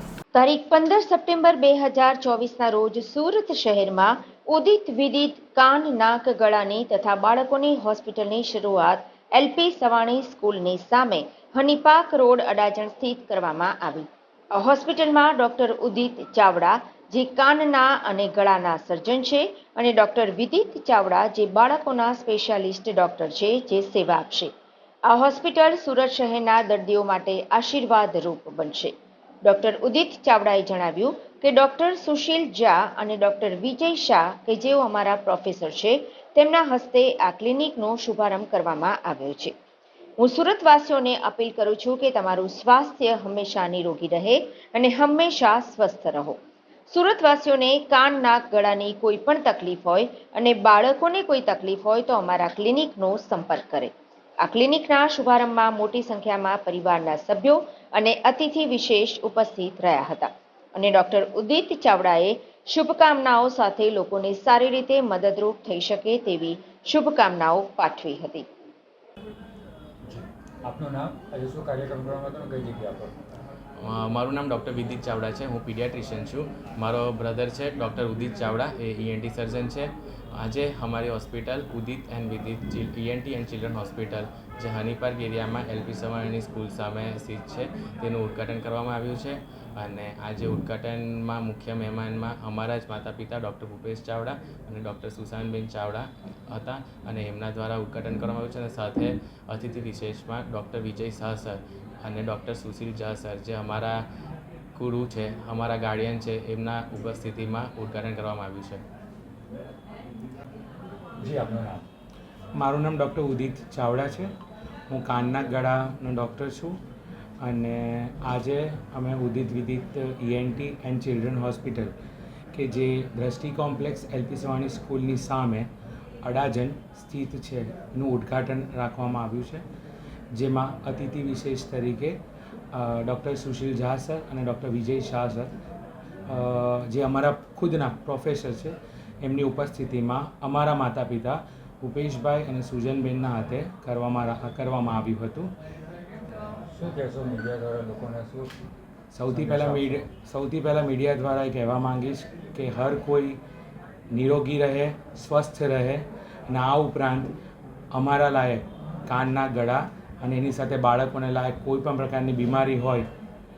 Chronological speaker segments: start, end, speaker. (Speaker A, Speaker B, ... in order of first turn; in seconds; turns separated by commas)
Speaker A: 0.3-24.5, Speaker A: 25.1-28.9, Speaker A: 29.4-39.5, Speaker A: 40.2-68.5, Speaker B: 70.0-73.4, Speaker C: 73.8-104.0, Speaker C: 104.8-108.8, Speaker B: 111.2-111.8, Speaker D: 112.5-114.3, Speaker D: 114.9-116.8, Speaker D: 117.4-121.9, Speaker D: 122.5-125.7, Speaker D: 126.2-129.6, Speaker D: 130.3-132.2, Speaker D: 132.7-135.5, Speaker D: 136.3-145.5, Speaker B: 146.7-148.5, Speaker D: 149.1-153.4, Speaker B: 149.3-150.1, Speaker D: 154.1-157.3, Speaker D: 157.9-163.1